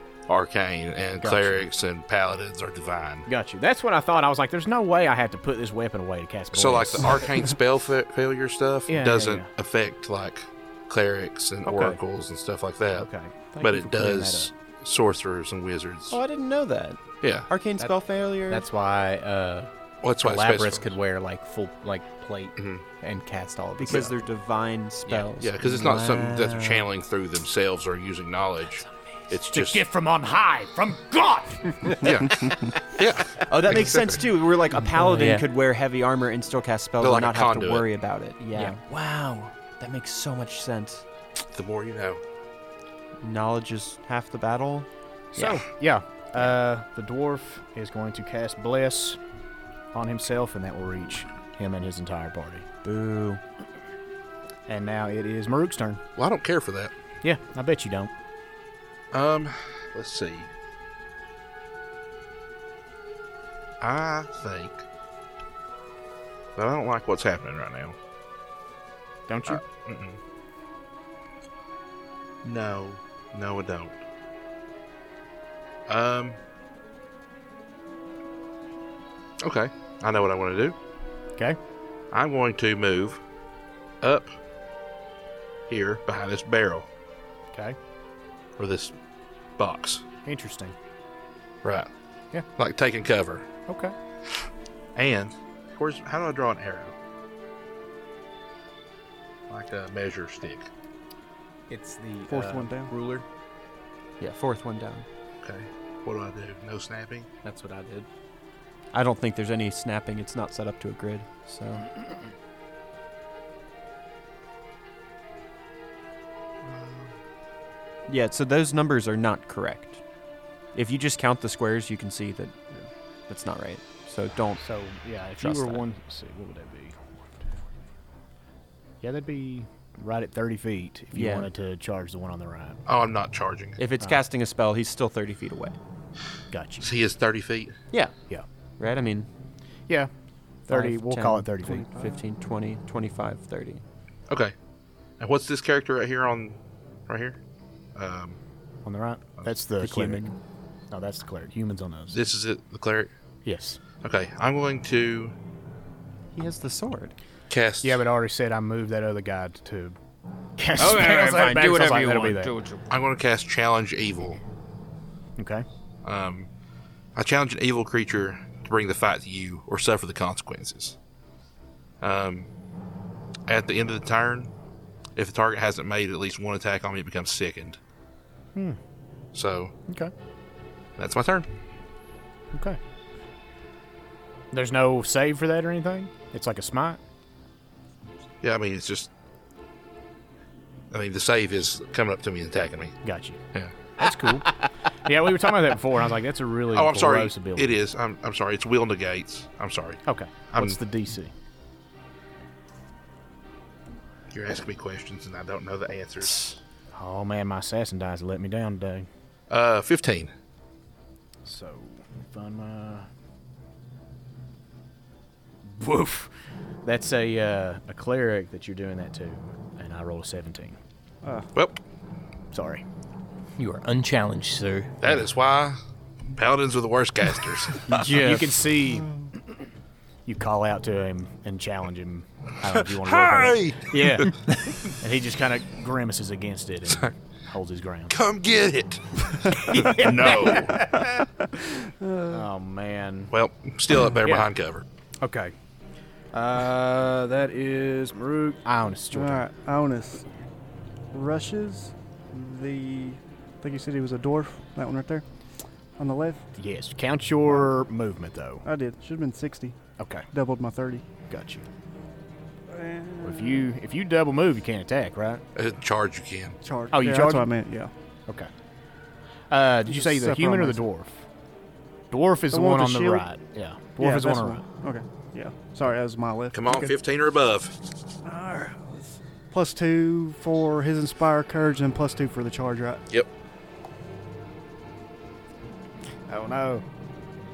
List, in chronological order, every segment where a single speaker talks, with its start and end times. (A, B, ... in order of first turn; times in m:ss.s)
0:00.3-0:03.3 A
0:01.2-0:01.6 B
0:03.3-0:07.3 B
0:06.5-0:13.1 A
0:08.9-0:09.5 B
0:11.6-0:12.0 B
0:13.0-0:14.5 B
0:13.6-0:16.2 A
0:16.1-0:18.7 C
0:17.2-0:17.5 A
0:18.5-0:19.7 D
0:20.0-0:21.0 A
0:20.2-0:24.1 D
0:22.6-0:22.8 A
0:23.8-0:26.9 C
0:25.4-0:29.8 A
0:29.5-0:32.1 B
0:32.0-0:34.2 A
0:33.4-0:41.0 C
0:35.0-0:35.4 D
0:37.0-0:37.9 A
0:41.5-0:42.2 A
0:43.2-0:45.6 C
0:45.4-0:49.2 B
0:49.9-0:52.7 B
0:52.8-0:53.4 C
0:54.7-0:56.0 B
0:56.2-0:56.9 A
0:57.2-0:58.1 B
0:59.1-1:00.5 A
1:03.8-1:04.8 A
1:06.6-1:08.0 A
1:09.3-1:09.6 B
1:09.5-1:10.2 A
1:12.4-1:14.0 A
1:15.9-1:16.4 A
1:19.4-1:20.8 A
1:22.1-1:23.2 A
1:24.0-1:24.3 A
1:25.7-1:26.9 A
1:28.6-1:28.9 A
1:29.6-1:30.0 A
1:30.2-1:30.8 B
1:31.6-1:31.9 A
1:32.6-1:33.5 A
1:33.7-1:33.9 B
1:35.0-1:36.9 A
1:39.5-1:40.7 A
1:41.7-1:43.2 D
1:42.3-1:42.9 E
1:44.2-1:45.1 C
1:45.4-1:47.3 A
1:47.4-1:48.1 D
1:48.9-1:51.9 C
1:56.7-1:57.1 A
1:58.1-2:00.0 C
2:00.7-2:02.6 C
2:03.3-2:04.6 C
2:04.6-2:07.0 B
2:05.4-2:05.8 C
2:09.0-2:12.8 B
2:11.1-2:11.5 C
2:12.9-2:13.8 A
2:13.8-2:15.8 C
2:16.5-2:16.9 B
2:16.8-2:17.8 A
2:18.8-2:19.3 C
2:20.7-2:21.9 B
2:20.7-2:23.8 C
2:21.7-2:22.2 E
2:25.2-2:27.4 A
2:28.0-2:28.4 A
2:28.8-2:30.3 B
2:29.8-2:30.4 C
2:30.9-2:32.2 B
2:32.1-2:33.1 A
2:33.4-2:33.8 B
2:34.0-2:35.3 A
2:36.4-2:37.2 C
2:37.5-2:38.0 A
2:37.8-2:40.0 B
2:40.6-2:42.5 B
2:40.8-2:42.6 C
2:40.9-2:42.8 D
2:42.9-2:44.4 A
2:45.4-2:45.6 B
2:46.0-2:46.5 A
2:47.2-2:51.0 A
2:52.0-2:52.5 A
2:53.5-2:54.5 A
2:55.2-2:57.8 A
2:59.3-2:59.7 A
3:01.0-3:01.5 A
3:02.5-3:02.8 B
3:04.5-3:07.0 B
3:08.4-3:09.1 A
3:10.9-3:13.0 A
3:13.0-3:13.4 B
3:14.0-3:17.8 B
3:16.7-3:20.8 A
3:20.1-3:21.3 B
3:24.3-3:26.6 A
3:26.9-3:29.1 B
3:29.5-3:30.3 A
3:31.4-3:33.1 B
3:35.6-3:36.3 B
3:36.8-3:40.8 B
3:42.5-3:42.8 B
3:43.6-3:45.0 D
3:45.0-3:45.8 A
3:46.3-3:47.9 A
3:47.9-3:49.1 B
3:47.9-3:48.6 D
3:50.3-3:58.2 B
3:52.7-3:54.3 A
3:58.1-4:00.8 A
3:59.7-4:01.1 B
4:01.0-4:02.4 E
4:02.3-4:03.3 B
4:03.3-4:04.8 A
4:05.2-4:05.5 B
4:06.3-4:09.4 B
4:09.1-4:10.3 E
4:11.1-4:15.2 E
4:16.0-4:16.5 E
4:16.6-4:18.6 B
4:18.6-4:19.8 E
4:20.0-4:20.3 B
4:20.3-4:21.0 E
4:21.3-4:21.7 B
4:22.7-4:23.7 E
4:23.2-4:25.4 B
4:25.6-4:26.6 A
4:26.6-4:27.9 E
4:26.9-4:27.5 B
4:29.5-4:31.2 B
4:29.9-4:30.8 E
4:32.1-4:34.6 B
4:32.5-4:33.3 E
4:34.0-4:36.9 E
4:36.5-4:37.8 A
4:38.2-4:43.0 E
4:46.3-4:46.8 E